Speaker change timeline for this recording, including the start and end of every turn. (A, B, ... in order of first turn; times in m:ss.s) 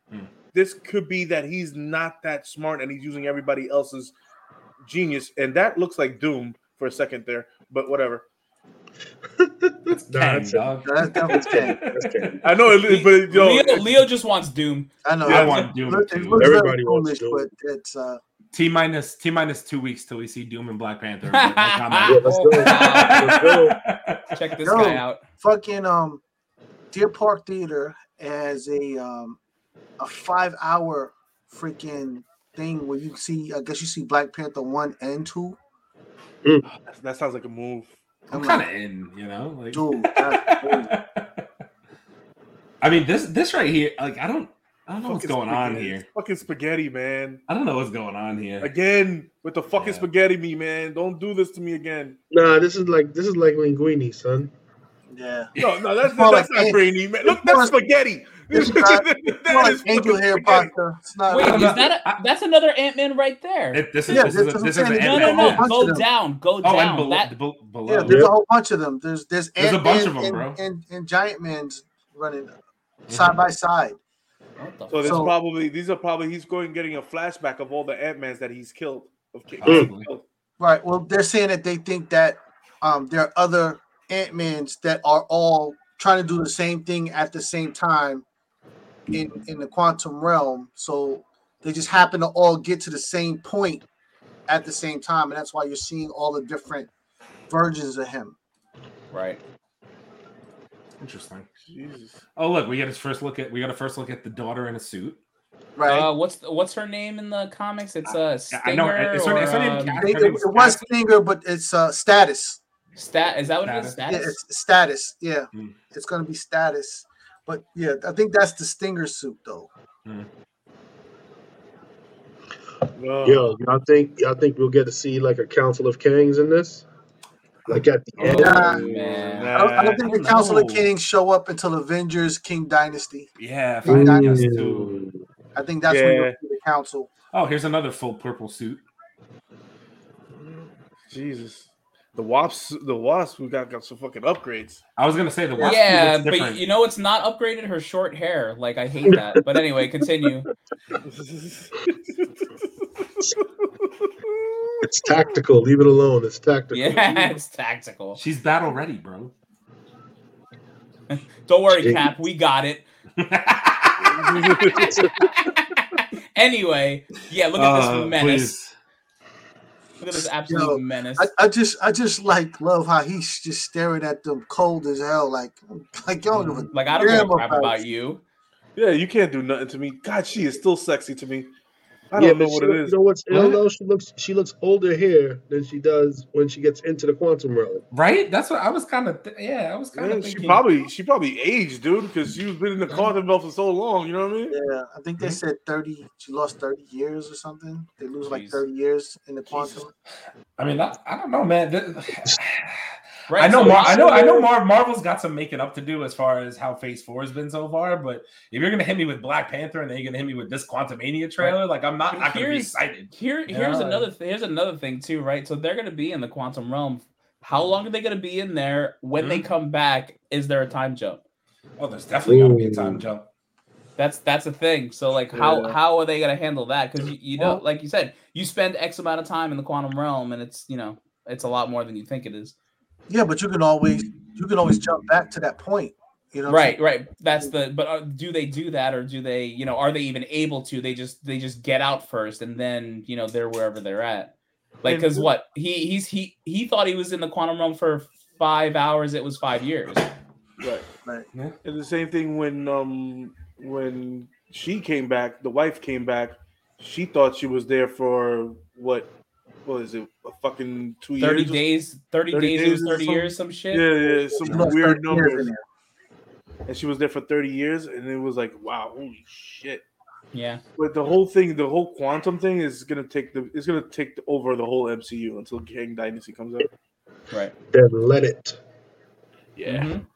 0:00.5-0:04.1 A
0:04.8-0:08.2 A
0:09.4-0:12.4 B
0:10.1-0:12.4 C
0:10.8-0:11.8 D
0:12.4-0:14.0 A
0:13.0-0:14.9 E
0:15.0-0:18.2 D
0:15.2-0:15.7 A
0:15.3-0:16.5 C
0:16.3-0:17.5 B
0:18.5-0:24.8 C
0:21.4-0:23.2 E
0:22.0-0:23.8 B
0:24.3-0:25.2 E
0:24.6-0:26.2 D
0:26.9-0:29.4 D
0:30.0-0:35.6 D
0:36.9-0:38.0 A
0:38.3-0:41.4 C
0:38.3-0:38.7 D
0:39.7-0:41.0 D
0:42.8-0:46.1 C
0:45.0-0:47.4 A
0:47.5-0:48.7 C
0:48.6-0:52.2 A
0:49.7-0:50.1 C
0:52.3-0:54.5 B
0:55.1-0:57.8 D
0:55.6-1:00.7 A
0:58.5-1:01.9 D
1:01.3-1:04.3 E
1:01.4-1:02.2 C
1:03.7-1:05.7 C
1:04.1-1:06.0 D
1:05.0-1:07.3 E
1:06.6-1:08.2 C
1:07.9-1:12.5 D
1:08.0-1:08.3 B
1:09.6-1:10.6 C
1:13.1-1:13.4 C
1:13.1-1:14.0 D
1:14.6-1:15.2 E
1:14.9-1:20.2 A
1:15.0-1:15.3 D
1:19.6-1:20.1 C
1:19.6-1:19.9 B
1:20.6-1:28.2 D
1:29.1-1:33.9 D
1:34.5-1:36.9 D
1:37.5-1:38.4 D
1:39.1-1:39.4 E
1:41.0-1:41.5 C
1:41.7-1:42.2 A
1:42.4-1:45.2 C
1:45.8-1:46.1 D
1:45.9-1:50.0 E
1:48.5-1:50.9 C
1:49.4-1:52.6 D
1:53.0-1:54.4 E
1:53.6-1:54.0 C
1:54.1-1:59.7 D
2:03.0-2:03.5 A
2:03.2-2:06.8 B
2:07.7-2:08.8 B
2:08.2-2:09.5 E
2:08.2-2:08.8 D
2:08.3-2:10.0 A
2:09.5-2:13.3 D
2:10.0-2:10.9 C
2:13.4-2:15.0 C
2:13.8-2:14.5 D
2:13.8-2:15.2 B
2:15.6-2:17.1 D
2:15.9-2:16.4 A
2:17.3-2:18.8 C
2:20.4-2:24.8 A
2:25.0-2:26.6 C
2:25.6-2:30.5 E
2:29.1-2:29.4 B
2:31.1-2:34.8 A
2:34.8-2:37.4 B
2:36.7-2:38.2 E
2:38.2-2:39.3 C
2:41.1-2:42.9 E
2:41.7-2:42.1 B
2:43.2-2:44.3 C
2:44.0-2:45.0 A
2:44.8-2:48.5 E
2:47.6-2:48.8 C
2:50.0-2:51.3 E
2:50.1-2:57.9 D
2:56.7-2:58.2 E
2:58.8-3:01.5 A
3:02.1-3:02.9 A
3:02.2-3:07.8 B
3:03.3-3:03.6 C
3:07.9-3:10.6 C
3:09.9-3:14.6 A
3:14.5-3:19.9 D
3:18.2-3:18.6 E
3:20.6-3:34.1 C
3:23.3-3:24.5 E
3:32.1-3:41.2 E
3:39.2-3:39.5 C
3:41.8-3:43.3 C
3:42.2-3:43.0 B
3:44.0-3:52.6 E
3:45.3-3:45.8 D
3:53.1-3:56.8 D
3:56.5-4:04.3 E
4:04.8-4:05.3 A
4:04.8-4:10.1 E
4:10.6-4:10.9 A
4:11.6-4:19.1 A
4:19.7-4:21.6 A
4:21.2-4:23.9 E
4:22.3-4:25.5 A
4:24.1-4:25.6 D
4:26.7-4:29.8 A
4:30.3-4:30.6 E
4:30.8-4:36.7 A
4:37.7-4:38.6 B
4:39.6-4:40.0 E